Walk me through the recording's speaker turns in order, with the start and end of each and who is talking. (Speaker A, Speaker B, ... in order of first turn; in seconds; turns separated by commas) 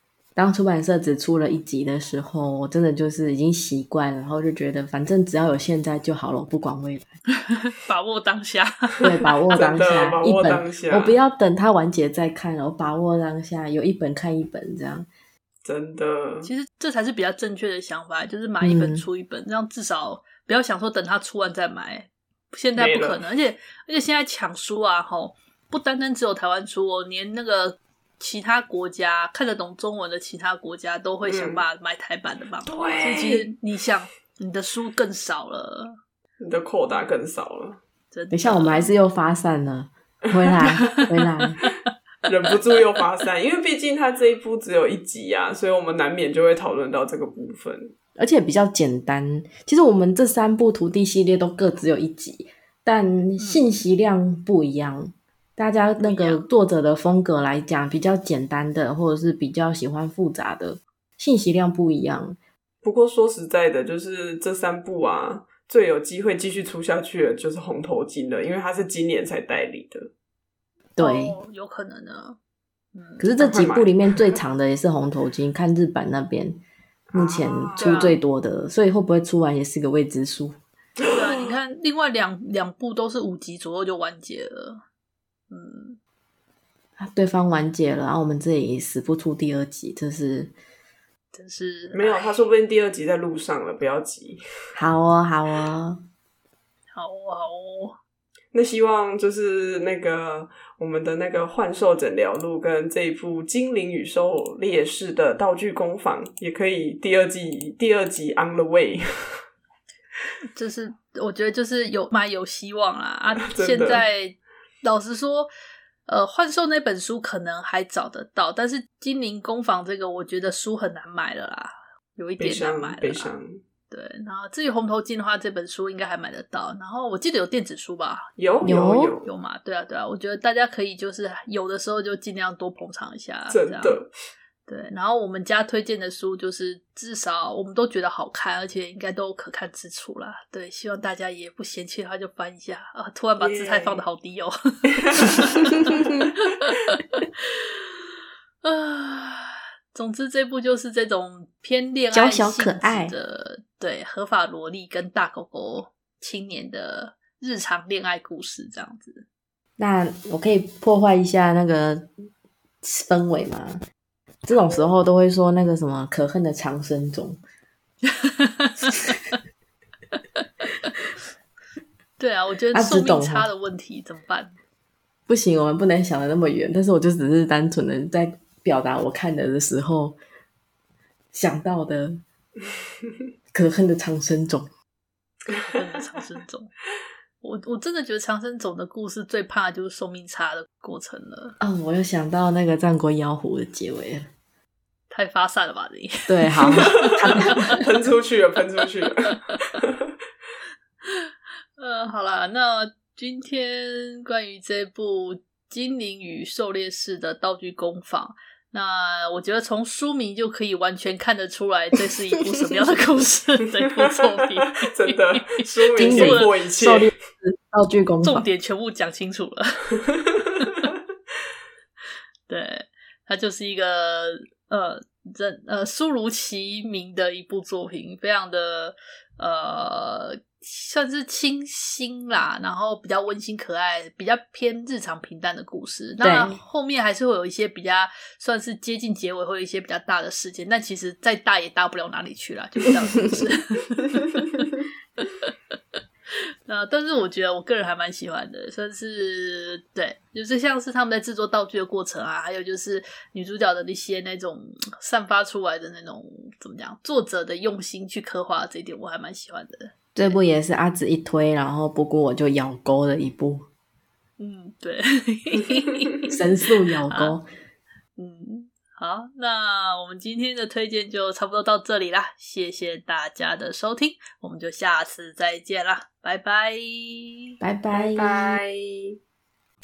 Speaker A: 0.4-7.1, Speaker B: 7.5-9.1, Speaker A: 9.0-15.1, Speaker C: 9.5-11.2, Speaker C: 15.6-16.5, Speaker B: 16.4-36.0, Speaker A: 18.6-19.1, Speaker C: 22.8-23.2, Speaker C: 31.2-31.6, Speaker C: 32.6-33.5, Speaker C: 36.4-37.8, Speaker B: 38.1-38.9, Speaker A: 38.3-41.6, Speaker B: 40.8-41.1, Speaker C: 42.3-47.9, Speaker A: 48.2-62.4, Speaker B: 53.4-53.6, Speaker B: 56.0-56.5, Speaker C: 62.8-70.1, Speaker A: 71.0-71.4, Speaker B: 71.0-72.4, Speaker B: 73.0-73.3, Speaker A: 73.2-76.6, Speaker C: 73.4-74.4, Speaker C: 77.1-78.2, Speaker A: 77.1-80.6, Speaker B: 77.8-78.2, Speaker B: 81.1-84.8, Speaker B: 85.5-86.0, Speaker A: 87.0-90.5, Speaker B: 91.3-92.4, Speaker C: 91.9-94.4, Speaker A: 94.8-96.0, Speaker B: 96.9-98.0, Speaker C: 98.5-109.0, Speaker B: 110.5-115.5, Speaker C: 113.5-114.1, Speaker B: 116.1-123.3, Speaker C: 122.4-123.6, Speaker B: 123.9-128.3, Speaker C: 128.4-129.3, Speaker A: 128.6-129.1, Speaker B: 129.2-134.0, Speaker C: 133.5-134.1, Speaker B: 134.7-147.3, Speaker C: 143.4-144.0, Speaker B: 148.6-159.2, Speaker A: 152.1-153.2, Speaker A: 159.8-162.1, Speaker A: 162.8-163.8, Speaker A: 164.4-167.4, Speaker B: 168.1-169.3, Speaker B: 170.1-170.9, Speaker B: 172.2-174.6, Speaker A: 172.7-173.5, Speaker A: 175.3-180.2, Speaker A: 181.3-182.2, Speaker A: 183.5-184.7, Speaker B: 185.5-186.7, Speaker B: 187.4-191.6, Speaker A: 191.6-194.3, Speaker B: 195.1-197.7, Speaker A: 196.3-197.7, Speaker C: 196.8-199.9, Speaker B: 201.1-216.5, Speaker C: 214.3-217.1, Speaker A: 216.0-218.5, Speaker B: 218.2-220.0, Speaker B: 220.6-220.9, Speaker B: 222.5-244.7, Speaker A: 236.2-236.6, Speaker B: 245.2-245.5, Speaker B: 246.7-260.4, Speaker A: 260.1-263.7, Speaker B: 264.4-266.4, Speaker A: 266.3-267.5, Speaker B: 267.1-267.4, Speaker B: 268.2-277.5, Speaker A: 277.6-278.4, Speaker C: 277.9-279.2